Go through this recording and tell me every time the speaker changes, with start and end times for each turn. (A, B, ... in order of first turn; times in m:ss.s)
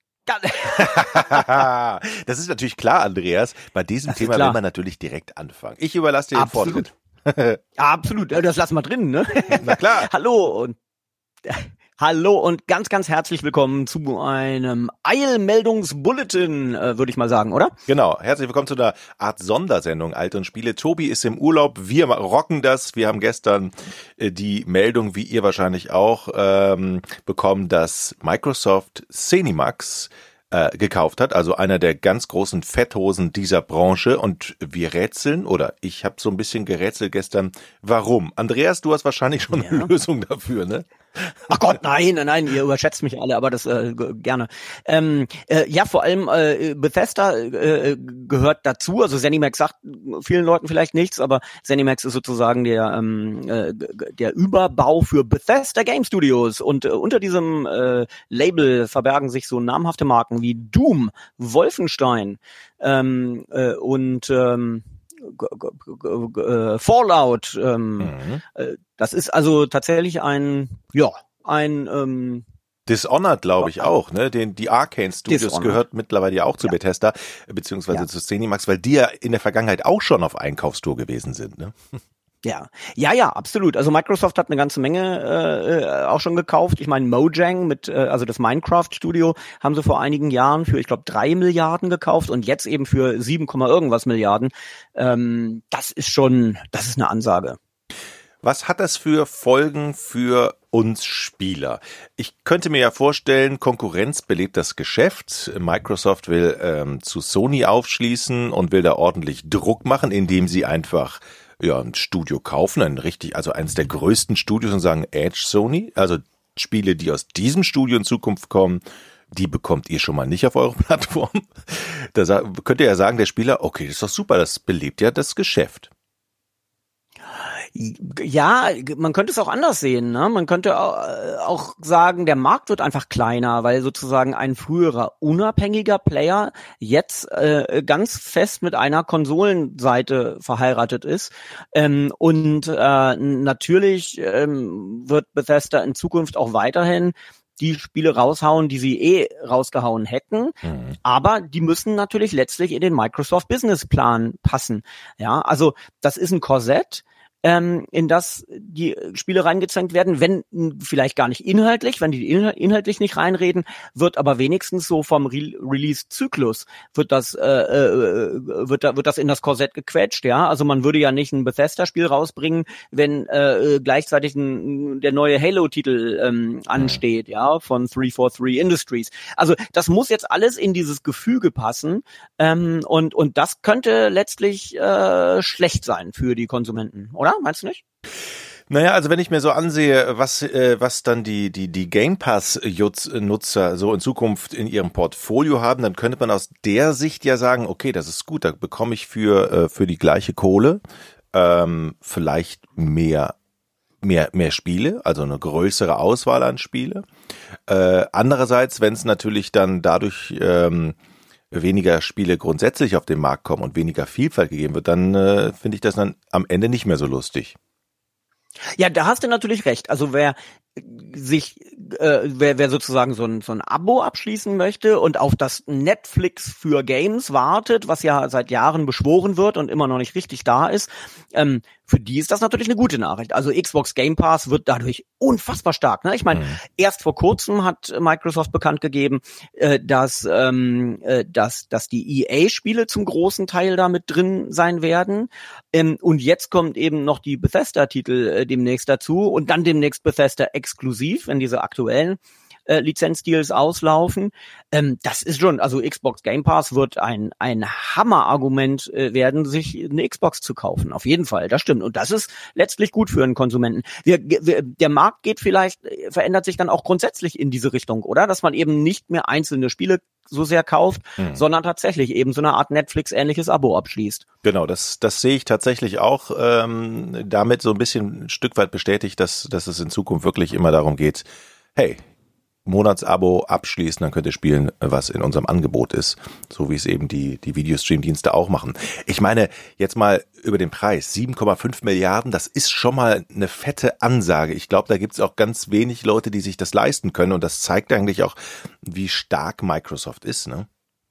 0:00.3-0:01.5 A
0:00.8-0:07.6 B
0:04.1-0:04.6 A
0:06.4-0:06.9 A
0:07.8-0:10.8 A
0:09.5-0:10.1 B
0:11.4-0:17.7 A
0:17.9-0:41.6 B
0:39.5-0:39.9 A
0:41.5-1:12.4 A
1:08.0-1:08.4 B
1:12.9-1:21.7 B
1:13.6-1:13.9 A
1:15.3-1:15.8 A
1:22.4-1:37.6 A
1:38.4-2:05.9 B
2:07.7-3:07.8 A
2:30.7-2:30.9 B
3:08.7-3:20.8 B
3:21.3-3:23.3 B
3:24.0-3:27.0 B
3:27.7-3:31.0 B
3:31.5-3:37.6 B
3:38.8-4:34.2 A
4:34.4-4:42.0 B
4:42.7-5:00.7 B